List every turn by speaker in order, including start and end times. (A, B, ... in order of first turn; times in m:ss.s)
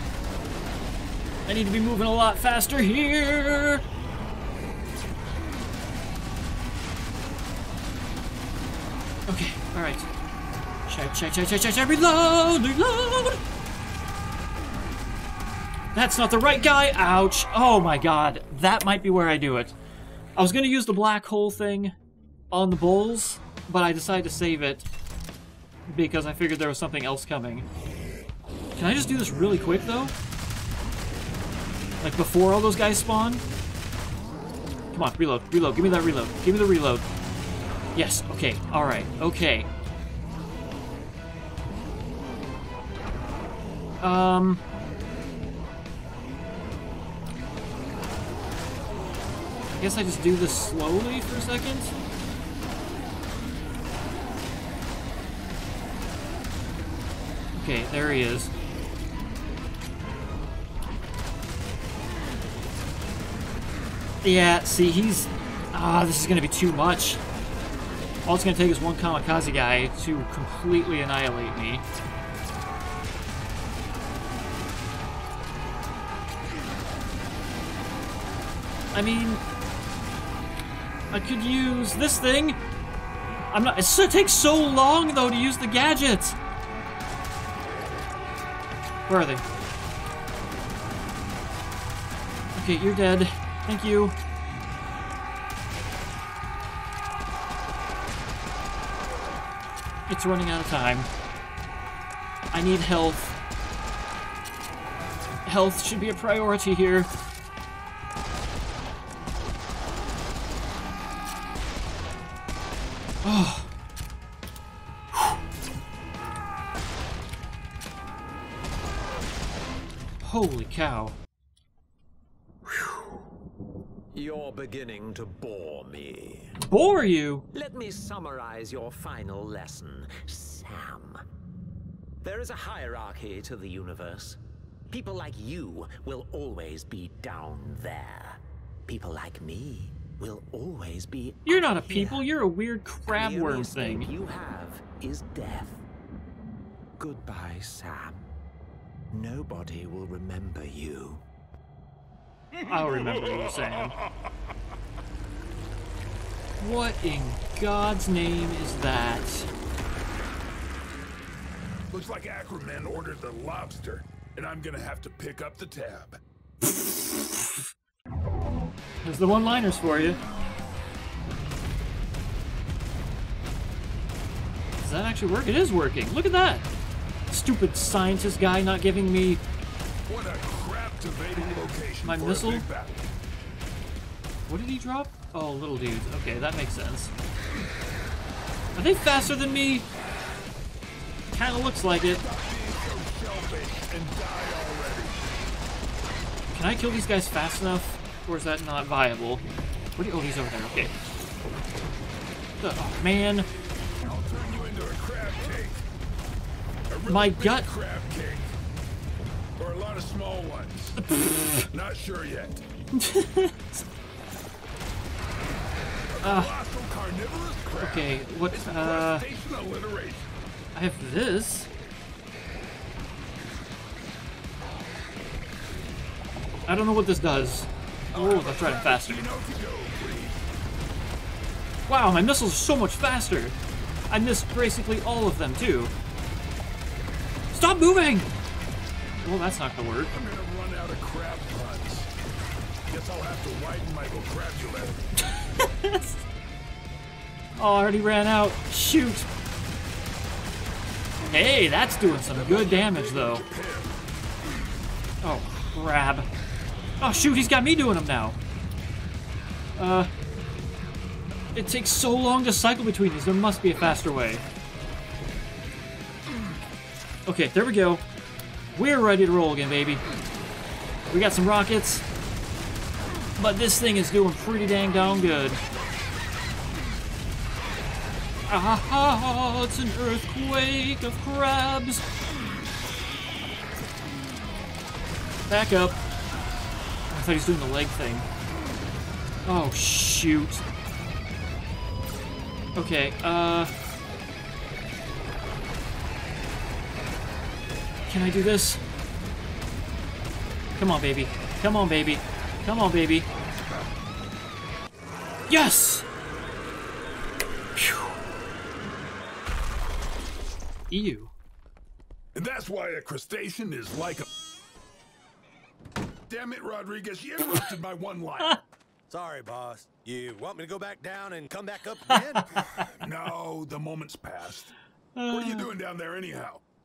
0:01.4-0:03.8 A
0:09.3-0:10.1 A
0:10.9-0:13.4 A
0:15.9-0:19.7 A
0:20.4-0:21.9 A
0:22.5-0:24.9 A
0:25.9-0:27.6 A
0:28.8-0:30.1 A
0:32.0-0:33.4 A
0:34.9-0:37.1 A
0:37.9-0:39.7 A
0:44.0-0:44.6 A
0:49.8-0:51.9 A
0:57.5-0:58.5 A
1:04.2-1:07.2 A
1:08.2-1:11.8 A
1:18.9-1:19.4 A
1:21.1-1:22.6 A
1:23.5-1:26.4 A
1:29.1-1:29.4 A
1:32.6-1:34.1 A
1:40.1-1:41.1 A
1:42.5-1:43.4 A
1:45.4-1:47.1 A
1:53.2-1:53.7 A
2:00.2-2:01.2 A
2:02.6-2:03.1 A
2:04.1-2:06.6 B
2:06.6-2:07.4 A
2:07.5-2:11.2 B
2:12.2-2:22.3 B
2:21.4-2:24.1 A
2:23.1-2:25.8 B
2:27.0-2:28.2 B
2:29.1-2:31.2 B
2:32.6-2:33.9 A
2:36.6-2:39.5 A
2:41.9-2:46.2 C
2:46.6-2:47.7 A
2:49.0-2:50.2 A
2:54.8-2:56.7 A
2:57.3-2:59.4 A
3:00.1-3:03.1 C
3:02.0-3:02.6 A
3:04.5-3:07.1 A
3:08.7-3:09.9 A
3:11.3-3:12.2 A
3:12.1-3:15.2 C
3:16.5-3:19.4 A
3:20.0-3:20.9 A
3:22.6-3:23.5 A
3:24.0-3:25.8 C
3:26.9-3:28.5 C
3:27.1-3:27.7 A
3:29.6-3:31.0 C
3:31.0-3:31.7 A
3:31.6-3:32.6 C
3:32.9-3:33.8 A
3:36.1-3:40.3 C
3:36.2-3:36.5 A
3:37.8-3:39.2 A
3:40.7-3:41.7 A
3:46.7-3:49.2 A
3:48.1-3:50.5 C
3:51.9-3:53.6 A
3:54.1-3:55.9 A
3:57.5-3:58.3 A
3:59.2-4:00.1 A
4:00.1-4:02.1 C
4:02.9-4:05.1 C
4:05.2-4:06.2 A
4:07.6-4:09.3 A
4:11.3-4:13.4 A
4:12.2-4:14.0 C
4:15.2-4:16.3 A
4:17.0-4:18.4 A
4:19.8-4:20.1 A
4:21.6-4:24.4 A
4:27.2-4:28.0 A
4:28.7-4:30.0 A
4:31.1-4:32.0 A
4:33.4-4:35.6 A
4:38.5-4:42.0 A
4:45.5-4:46.0 A
4:47.1-4:48.3 A
4:49.4-4:50.6 A
4:52.8-4:53.7 A
4:58.1-4:58.8 A
5:00.8-5:03.3 A
5:05.5-5:06.1 A
5:07.8-5:08.1 A
5:10.9-5:11.3 A
5:12.4-5:14.2 C
5:16.3-5:18.6 C
5:19.1-5:22.8 D
5:22.1-5:22.9 A
5:23.0-5:24.7 C
5:25.2-5:25.7 A
5:25.3-5:26.6 C